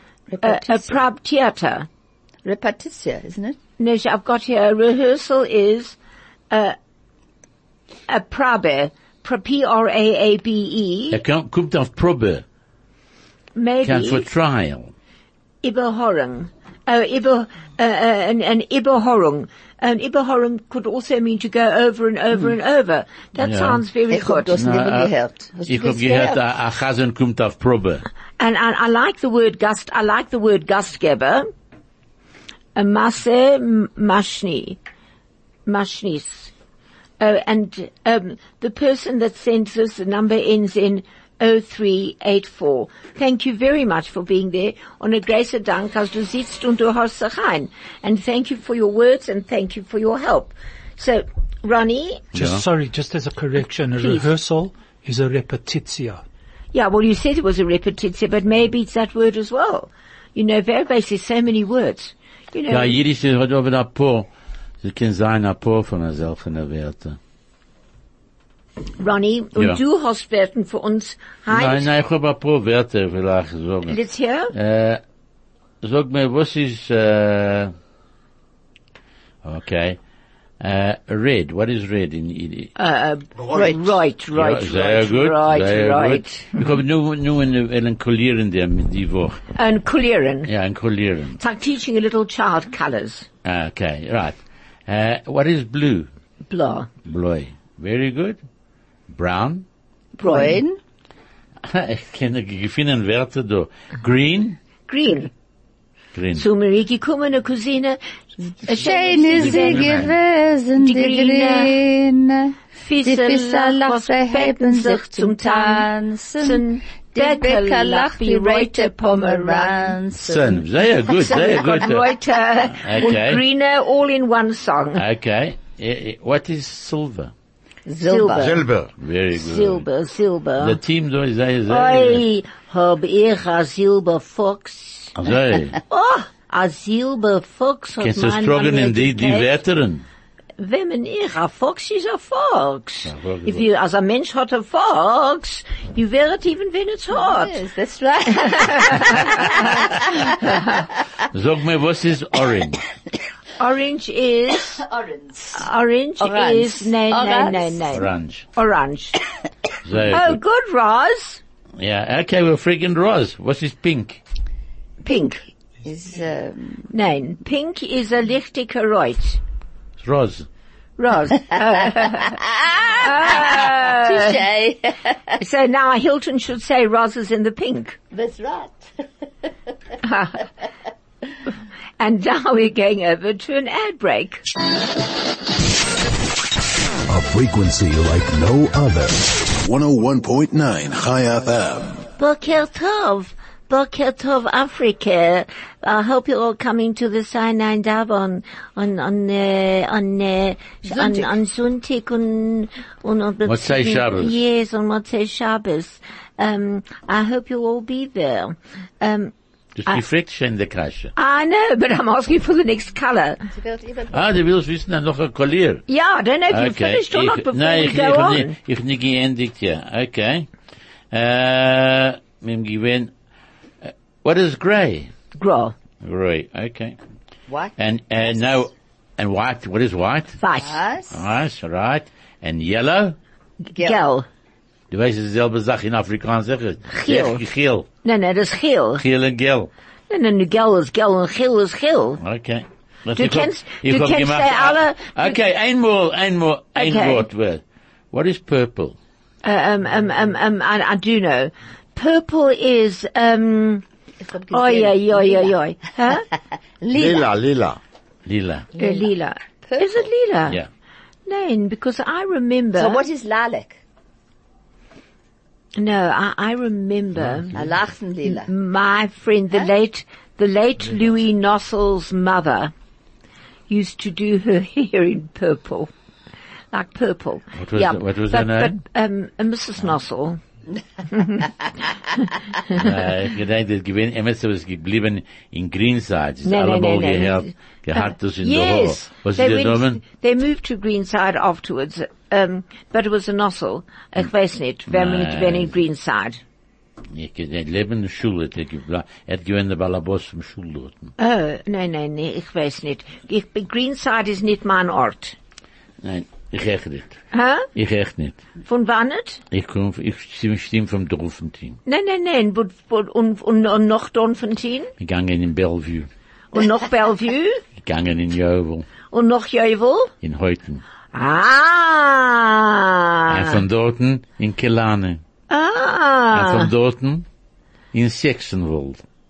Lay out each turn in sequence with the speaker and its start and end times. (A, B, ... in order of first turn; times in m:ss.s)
0:00.3-0:01.0 A
0:00.4-0:01.9 B
0:02.4-0:03.6 A
0:03.8-0:06.0 B
0:06.5-0:06.8 B
0:08.1-0:11.2 B
0:11.1-0:12.4 C
0:13.5-0:14.2 B
0:13.8-0:14.9 C
0:15.6-0:24.6 B
0:23.4-0:23.8 C
0:24.1-0:26.4 A
0:24.6-0:25.1 C
0:25.6-0:28.0 C
0:28.4-0:31.5 B
0:32.8-0:34.8 B
0:35.6-0:36.5 B
0:37.2-0:52.3 B
0:52.3-0:52.6 C
0:52.3-0:56.2 D
0:54.0-0:54.3 B
0:56.7-1:03.0 B
1:02.7-1:04.3 C
1:04.8-1:07.2 C
1:09.0-1:11.9 B
1:11.5-1:14.0 C
1:13.9-1:14.5 B
1:14.5-1:15.0 C
1:15.8-1:17.7 C
1:19.4-1:20.0 C
1:20.6-1:22.7 C
1:22.8-1:26.6 B
1:23.4-1:23.8 E
1:23.5-1:23.8 A
1:24.3-1:29.4 C
1:29.6-1:30.5 B
1:30.4-1:31.4 C
1:31.4-1:33.3 B
1:33.4-1:36.1 C
1:36.5-1:36.9 B
1:37.0-1:38.4 C
1:39.1-1:39.6 C
1:40.2-1:40.6 B
1:40.2-1:40.8 A
1:41.6-1:44.6 C
1:44.9-1:45.3 B
1:46.1-1:46.4 C
1:46.4-1:48.0 B
1:48.6-1:50.1 B
1:48.6-2:00.6 A
1:49.3-1:50.1 C
1:50.8-1:51.7 B
1:52.8-1:55.9 B
1:56.4-2:00.0 B
2:00.2-2:02.0 C
2:01.2-2:01.7 A
2:01.3-2:05.0 B
2:02.8-2:03.4 C
2:05.0-2:07.3 C
2:07.8-2:08.6 A
2:08.0-2:08.6 B
2:08.3-2:08.9 E
2:09.0-2:09.8 C
2:09.3-2:10.8 B
2:10.6-2:12.2 C
2:11.7-2:15.1 B
2:15.2-2:15.8 C
2:15.9-2:19.5 B
2:18.0-2:20.0 C
2:20.6-2:27.6 B
2:23.0-2:23.6 C
2:27.1-2:30.8 A
2:28.4-2:29.7 B
2:30.4-2:30.7 B
2:31.3-2:32.8 C
2:33.6-2:34.8 B
2:34.7-2:35.6 A
2:35.5-2:39.2 B
2:36.2-2:38.0 A
2:37.9-2:38.4 C
2:39.8-2:40.4 C
2:40.1-2:41.4 B
2:41.8-2:44.2 C
2:45.0-2:45.4 B
2:45.8-2:46.9 A
2:46.9-2:49.4 B
2:50.0-2:50.4 C
2:51.0-2:52.4 B
2:51.6-2:55.4 A
2:53.0-2:54.4 B
2:55.4-2:58.0 B
2:58.1-2:58.8 A
3:00.0-3:00.4 B
3:02.0-3:04.4 B
3:07.1-3:12.0 F
3:12.2-3:29.3 B
3:20.9-3:21.3 A
3:23.4-3:24.4 C
3:29.8-3:31.1 C
3:31.2-3:33.4 B
3:33.5-3:34.3 A
3:34.1-3:35.8 C
3:35.9-3:38.6 B
3:36.5-3:40.5 C
3:41.1-3:43.1 C
3:43.8-3:45.1 C
3:45.3-3:45.7 B
3:46.0-3:47.0 C
3:47.5-3:48.6 A
3:47.8-3:50.4 C
3:50.4-3:50.8 B
3:50.6-3:51.2 A
3:51.1-3:53.2 C
3:53.8-3:54.0 A
3:53.8-3:54.2 B
3:54.9-3:57.9 C
3:56.9-3:57.4 B
3:58.0-3:59.0 B
3:59.0-3:59.7 C
4:00.1-4:02.2 B
4:02.2-4:09.0 C
4:03.2-4:05.4 B
4:06.8-4:07.2 B
4:09.4-4:13.8 B
4:14.2-4:15.6 A
4:14.5-4:16.2 B
4:16.8-4:17.3 A
4:16.9-4:17.8 E
4:18.2-4:18.7 C
4:18.7-4:19.1 A
4:18.8-4:20.6 B
4:19.6-4:20.1 A
4:21.2-4:23.0 B
4:22.8-4:23.8 A
4:25.8-4:27.5 B
4:27.5-4:28.5 A
4:28.3-4:32.7 B
4:33.7-4:35.9 B
4:36.7-4:40.4 B
4:37.5-4:38.8 C
4:41.1-4:41.4 B
4:42.7-4:50.0 C
4:46.4-4:56.4 B
4:54.9-4:55.7 C
4:57.1-5:01.1 C
5:01.2-5:05.4 B
5:06.0-5:07.2 C
5:07.3-5:07.7 B
5:07.7-5:08.4 C
5:08.6-5:09.4 B
5:09.5-5:11.8 C
5:11.8-5:14.9 B
5:15.0-5:16.1 C
5:16.5-5:17.6 B
5:17.8-5:18.9 C
5:19.1-5:20.1 B
5:20.2-5:20.8 C
5:21.1-5:23.6 B
5:23.3-5:25.2 C
5:25.5-5:26.7 B
5:26.3-5:27.2 C
5:27.9-5:29.0 C